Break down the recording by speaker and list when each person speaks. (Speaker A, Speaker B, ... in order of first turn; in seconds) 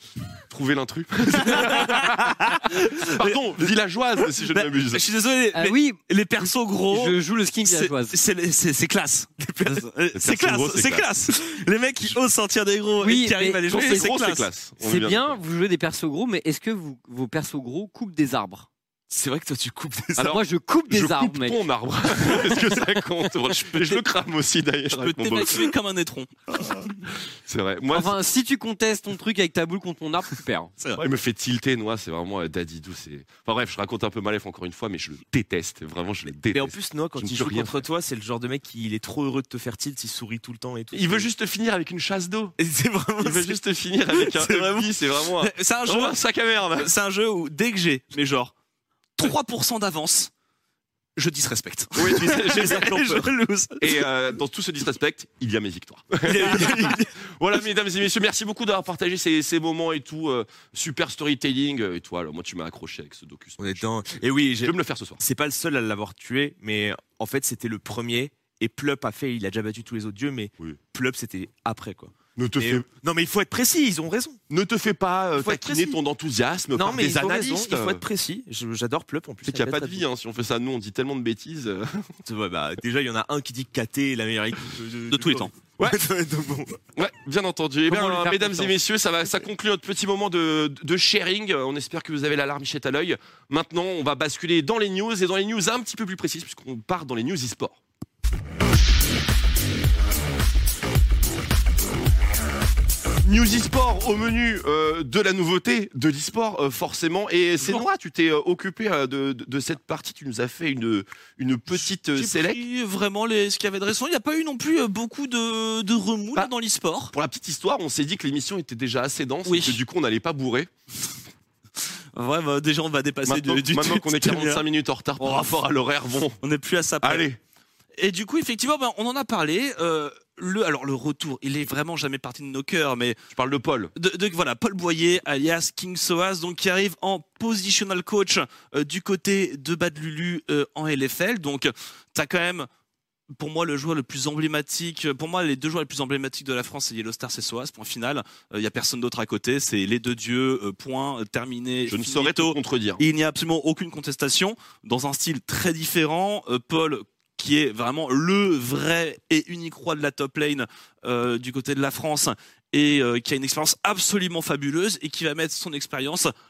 Speaker A: 0.5-5.0, 10.2-11.1, 13.7-15.4, 20.2-25.7, 27.4-28.2, 31.0-37.8, 40.9-42.6, 43.2-46.9, 52.0-53.2, 53.8-65.2, 72.4-72.9, 74.5-78.0, 79.5-82.1, 87.0-97.8, 103.2-112.6, 117.1-120.7, 123.3-126.4, 127.0-127.4, 133.3-133.9, 151.9-153.0
Speaker B: 1.8-2.1, 9.4-9.9, 19.1-20.4, 36.5-41.3, 42.6-44.9, 52.4-53.1, 56.2-57.1, 63.6-74.4, 75.3-76.0, 76.7-80.1, 82.2-86.8
Speaker C: 2.7-3.3, 4.4-14.5, 23.6-24.0, 24.9-27.0, 45.4-46.2, 46.8-48.5, 49.2-50.3, 51.2-54.1, 85.1-85.5, 107.6-107.9, 111.7-117.1, 119.5-119.8, 122.2-124.7, 125.2-125.6, 126.4-127.3, 128.0-133.2, 134.0-142.7, 143.4-166.3
Speaker D: 5.5-6.0, 6.9-8.2, 13.0-13.6, 14.8-18.7, 20.2-21.6, 27.9-30.7, 87.9-88.8